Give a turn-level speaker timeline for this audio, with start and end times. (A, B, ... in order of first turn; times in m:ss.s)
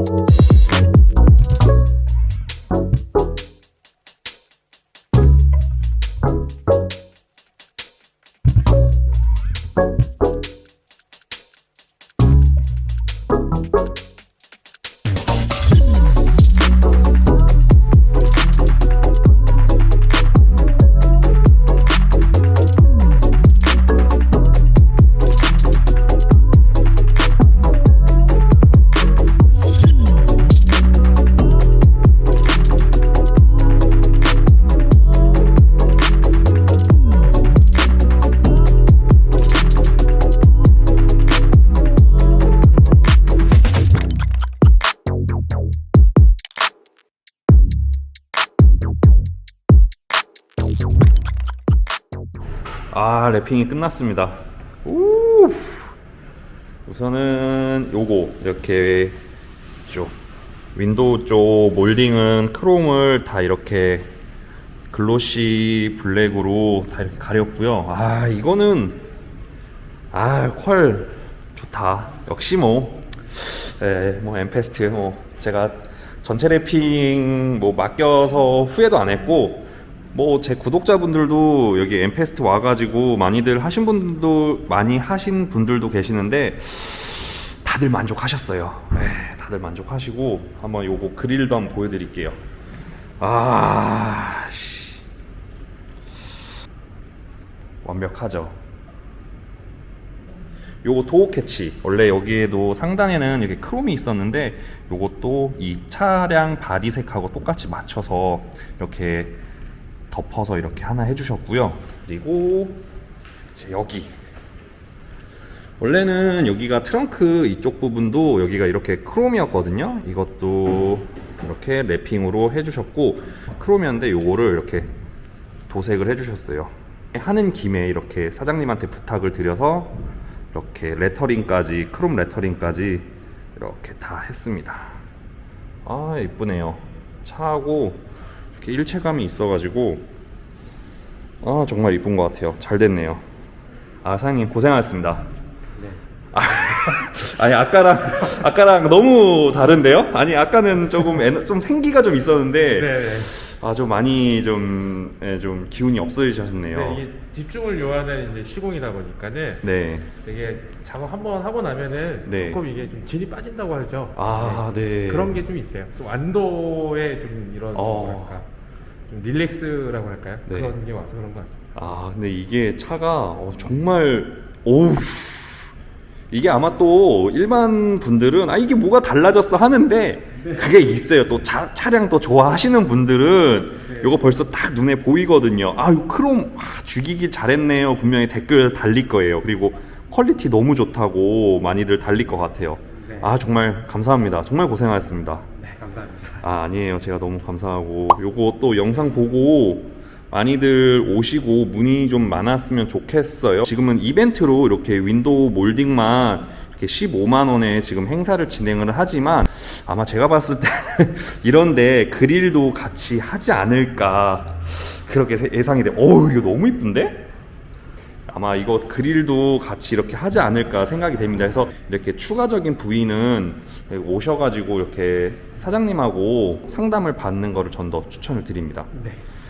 0:52.9-0:55.9 A
0:56.8-0:59.2 A
0:59.9-1:00.1 A
1:00.7-1:04.1 A
1:04.9-1:09.0 A
1:10.1-1:32.4 A
1:33.2-1:35.0 A
1:37.8-1:38.6 A
1:40.8-1:49.4 A
1:50.1-1:52.8 A
1:53.5-1:54.1 A
1:55.8-2:04.9 A
2:05.7-2:10.0 A
2:10.5-2:15.0 A
2:15.8-2:18.0 A
2:18.6-2:20.1 A
2:21.4-2:23.2 A
2:24.0-2:25.3 A
2:26.3-2:37.0 A
2:32.7-2:33.3 B
2:36.7-2:39.6 B
2:39.6-2:40.1 A
2:40.2-2:48.5 B
2:42.2-2:42.6 A
2:44.2-2:45.4 A
2:47.7-2:48.3 A
2:49.1-2:51.6 B
2:50.5-2:50.7 A
2:51.7-2:55.6 A
2:56.3-3:15.4 A
3:00.3-3:00.6 B
3:03.9-3:04.2 B
3:12.9-3:13.3 B
3:15.6-3:16.5 B
3:16.4-3:37.2 A
3:38.3-3:48.9 A
3:48.9-3:49.2 B